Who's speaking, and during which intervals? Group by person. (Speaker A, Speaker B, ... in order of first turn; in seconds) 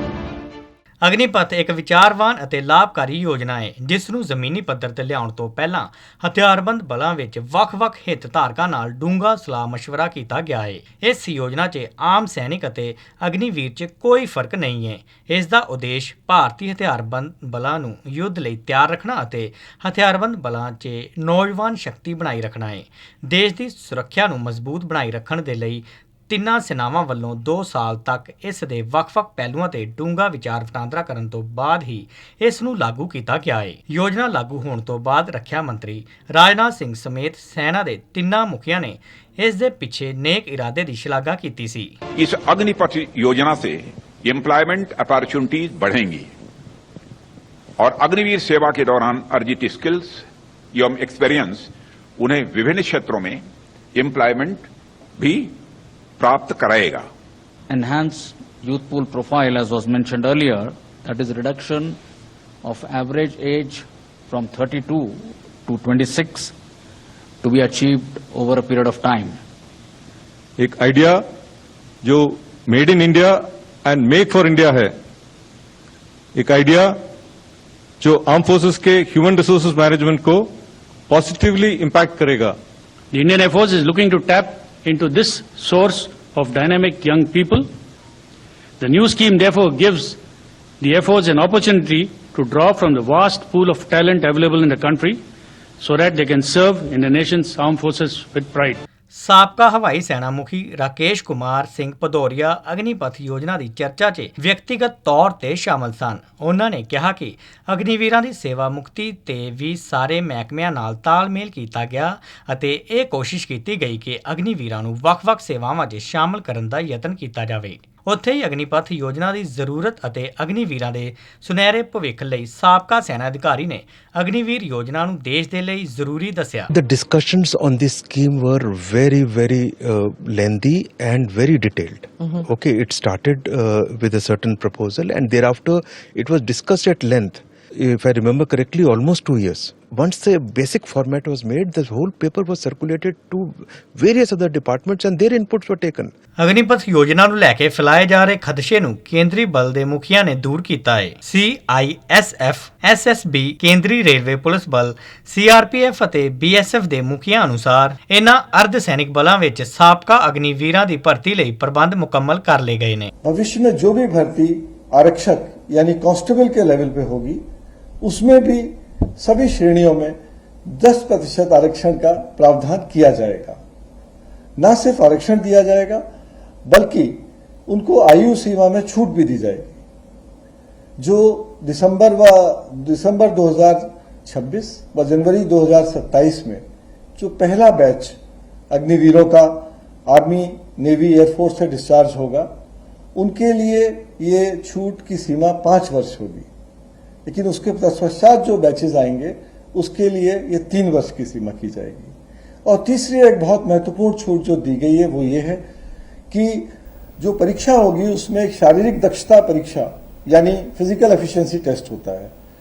Speaker A: 1.0-41.9, 99.1-126.7, 146.4-163.1
Speaker B: 42.2-43.7, 44.3-46.2, 47.8-50.0, 50.8-51.6, 52.2-53.3, 54.0-54.6, 56.2-57.0
Speaker C: 57.7-62.0, 62.6-66.5, 67.4-69.4
Speaker D: 70.6-71.2, 72.0-74.9, 76.3-77.0, 78.0-80.5, 81.1-82.6
Speaker E: 83.1-87.7, 88.8-90.2, 90.8-95.2, 95.8-98.8
Speaker F: 126.7-146.1
Speaker G: 163.2-167.4, 168.0-170.2, 170.7-173.6, 174.6-176.0, 176.7-179.8, 181.0-186.6, 187.2-188.2, 188.7-192.5, 193.1-196.5, 197.2-202.1, 202.7-205.6, 206.3-206.7, 207.2-212.3